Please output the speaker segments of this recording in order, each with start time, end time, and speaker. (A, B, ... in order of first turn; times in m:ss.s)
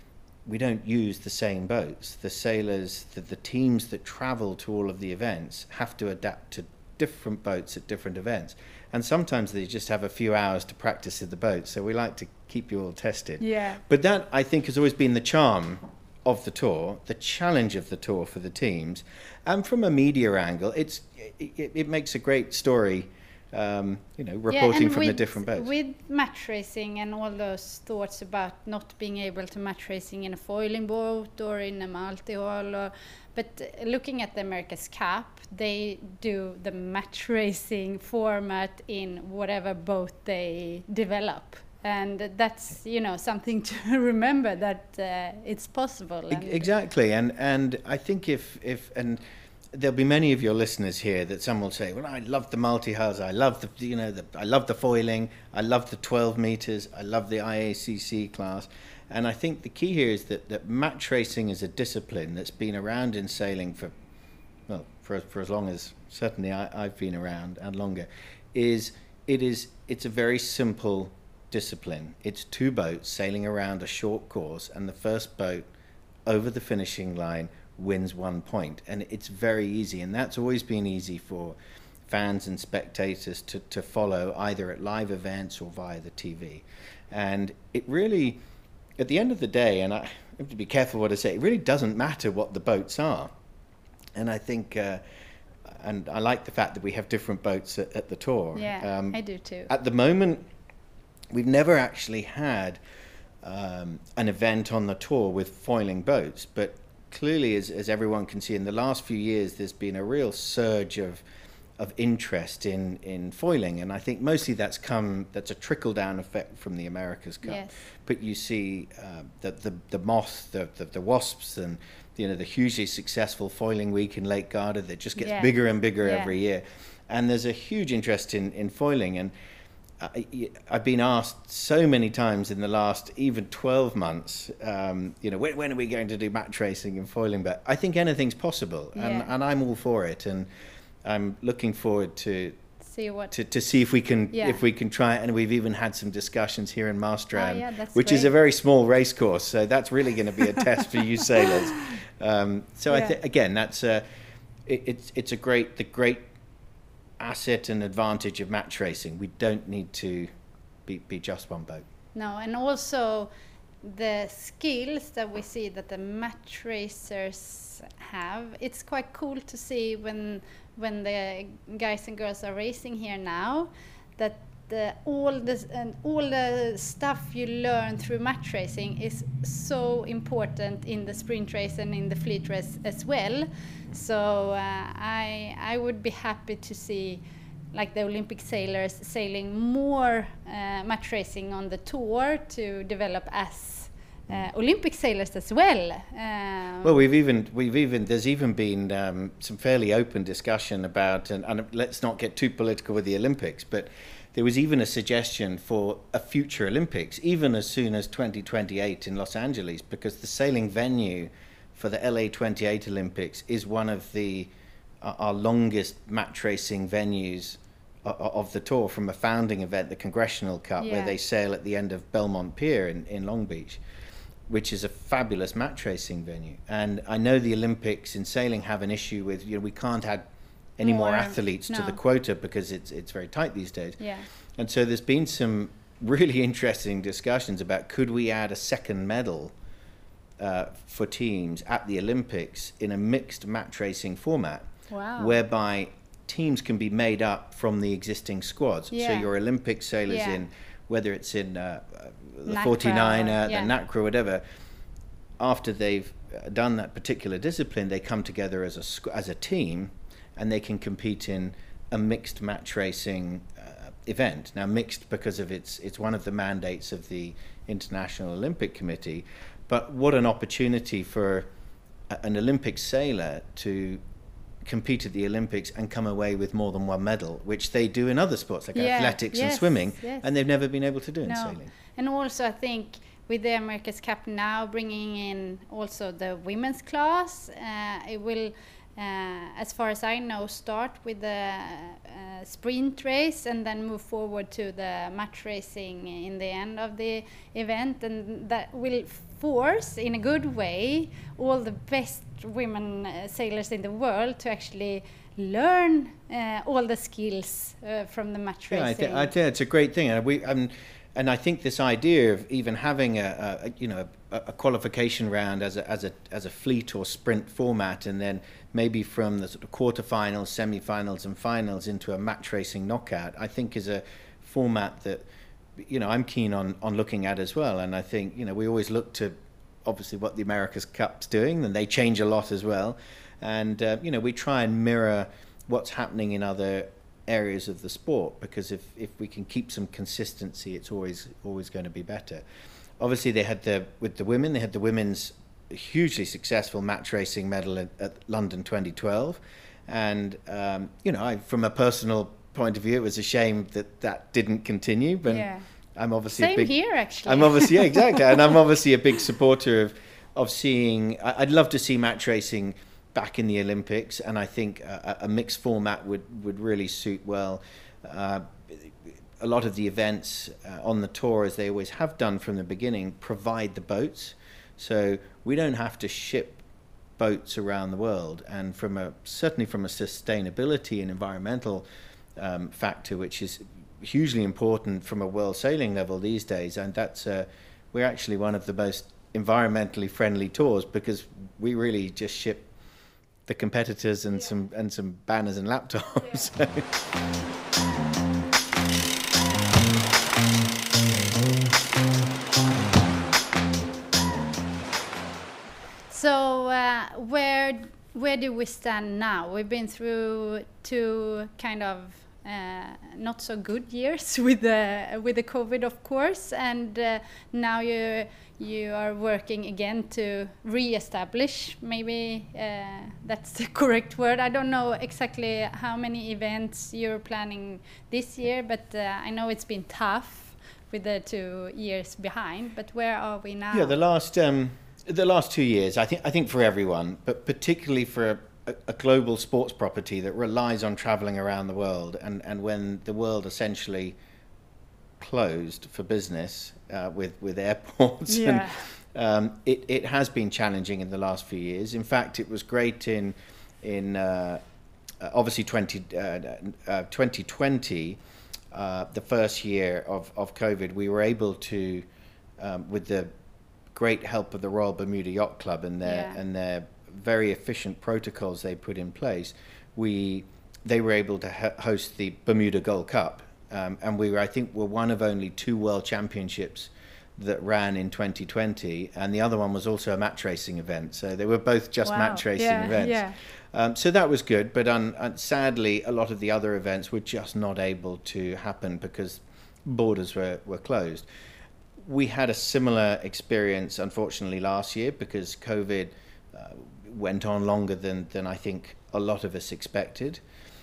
0:00.4-0:25.7 A
0:13.4-0:13.8 B
0:24.5-0:46.7 B
0:46.3-1:03.9 A
1:04.7-1:15.7 A
1:16.2-1:28.4 A
1:29.0-1:33.3 A
1:34.1-1:35.0 A
1:35.6-1:40.4 A
1:38.5-1:39.7 B
1:41.3-1:42.8 A
1:43.4-1:51.2 A
1:51.8-2:09.3 A
1:57.4-1:57.7 B
2:05.2-2:06.3 B
2:10.0-2:20.5 A
2:18.9-2:19.3 B
2:21.0-2:22.6 A
2:22.8-2:23.3 B
2:23.3-2:34.0 A
2:24.3-2:24.6 B
2:27.3-2:28.3 B
2:32.9-2:33.2 B
2:34.6-2:36.2 A
2:37.2-2:40.3 A
2:40.8-2:41.8 A
2:42.1-2:43.3 B
2:43.8-3:07.2 B
3:07.7-3:17.0 B
3:16.8-3:43.8 A
3:40.8-3:41.1 B
3:44.5-3:50.2 A
3:50.8-3:54.0 A
3:50.8-3:52.0 B
3:54.0-3:54.3 B
3:54.6-3:59.5 A
4:00.4-4:14.4 A
4:04.9-4:05.4 B
4:08.9-4:09.3 B
4:10.1-4:10.4 B
4:12.4-4:13.7 B
4:15.4-4:31.5 A
4:32.1-4:34.0 A
4:34.6-4:41.7 A
4:38.7-4:40.3 B
4:41.2-5:09.3 B
5:08.7-5:25.2 A
5:25.8-5:42.4 A
5:43.0-6:16.6 A
5:55.3-5:55.6 B
5:56.3-5:58.4 B
6:17.2-6:32.7 A
6:33.4-6:36.9 A
6:46.1-7:13.9 B
7:13.7-7:24.2 A
7:25.2-7:34.6 A
7:28.3-7:28.8 B
7:35.2-7:38.2 A
7:38.7-7:42.1 A
7:42.6-7:43.3 A
7:43.9-8:11.3 A
7:46.0-7:46.4 B
8:02.0-8:03.4 B
8:12.0-8:20.4 A